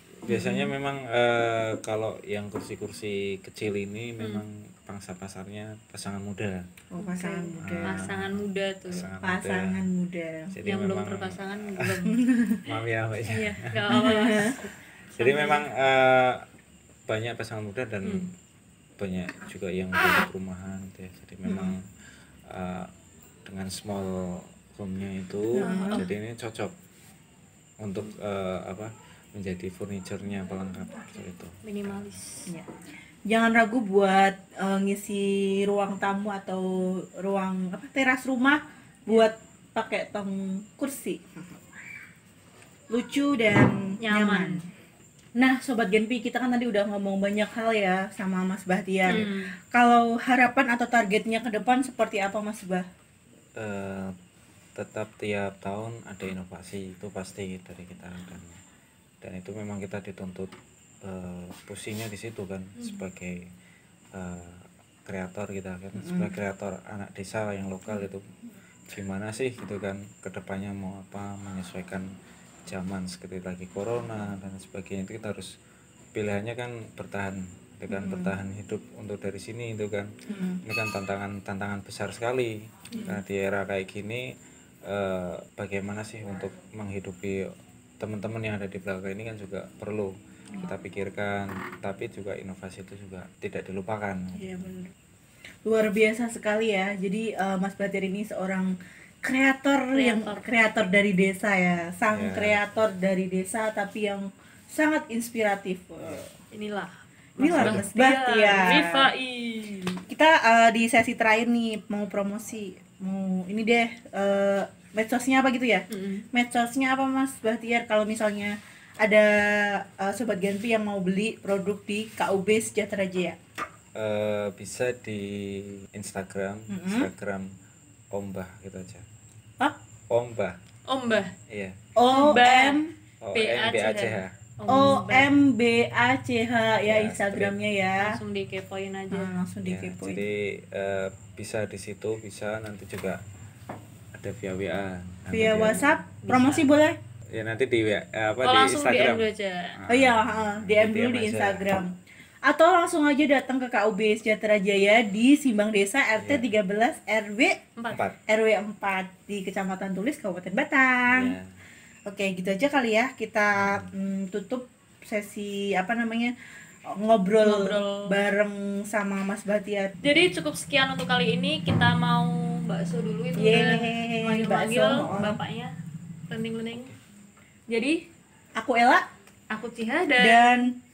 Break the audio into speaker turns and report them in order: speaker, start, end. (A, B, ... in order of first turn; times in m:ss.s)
0:00.2-0:06.6 A
0:00.3-0:00.7 B
0:04.2-0:04.4 C
0:06.9-0:08.1 B
0:07.0-0:09.1 C
0:07.6-0:09.8 A
0:09.2-0:10.5 B
0:10.5-0:12.0 A
0:10.6-0:12.2 C
0:12.1-0:12.6 B
0:12.6-0:13.8 A
0:13.3-0:15.6 C
0:13.9-0:14.6 B
0:15.2-0:16.4 A
0:17.1-0:18.3 A
0:19.0-0:21.8 A
0:21.4-0:21.7 B
0:22.5-0:22.9 A
0:23.4-0:26.7 A
0:25.5-0:26.0 B
0:25.6-0:26.1 C
0:27.8-0:32.1 A
0:31.1-0:32.5 C
0:33.3-0:41.6 B
0:42.9-0:44.6 B
0:44.0-0:44.7 C
0:45.4-0:52.8 B
0:49.1-0:49.5 C
0:53.6-0:54.1 A
0:54.8-0:58.6 A
0:59.2-1:00.5 A
1:01.0-1:03.5 A
1:04.1-1:08.2 A
1:06.0-1:06.3 B
1:08.9-1:12.1 A
1:12.7-1:15.5 A
1:16.1-1:20.1 A
1:17.9-1:18.3 B
1:20.3-1:20.6 B
1:20.6-1:24.3 A
1:24.8-1:27.5 A
1:28.0-1:34.7 A
1:34.3-1:34.9 B
1:35.6-1:46.3 B
1:39.9-1:40.5 C
1:42.1-1:42.6 A
1:46.5-1:50.0 C
1:47.4-1:49.1 B
1:47.5-1:47.9 A
1:50.1-2:03.4 B
1:55.9-1:56.2 C
2:04.0-2:07.5 A
2:06.7-2:07.1 B
2:08.1-2:09.0 A
2:10.1-2:10.6 A
2:10.9-2:11.3 C
2:11.5-2:11.8 A
2:12.0-2:12.9 B
2:12.1-2:12.8 C
2:13.2-2:14.3 A
2:13.3-2:15.3 C
2:14.7-2:18.2 B
2:16.8-2:17.5 A
2:18.0-2:19.3 C
2:19.1-2:20.2 B
2:19.6-2:23.2 A
2:24.2-2:26.0 A
2:25.3-2:27.0 B
2:26.2-2:26.7 C
2:27.3-2:31.8 A
2:28.4-2:29.7 C
2:29.9-2:31.9 B
2:32.4-2:37.6 B
2:36.2-2:36.4 A
2:37.8-2:38.0 C
2:37.9-2:38.2 A
2:38.3-2:41.4 B
2:41.1-2:41.5 A
2:42.1-2:46.3 B
2:43.5-2:43.9 A
2:46.9-2:49.9 B
2:47.4-2:48.2 C
2:50.0-2:55.7 C
2:53.3-2:55.4 B
2:56.3-2:56.9 C
2:57.7-2:58.0 C
2:58.6-2:59.0 B
2:59.5-3:00.6 C
3:00.2-3:00.7 B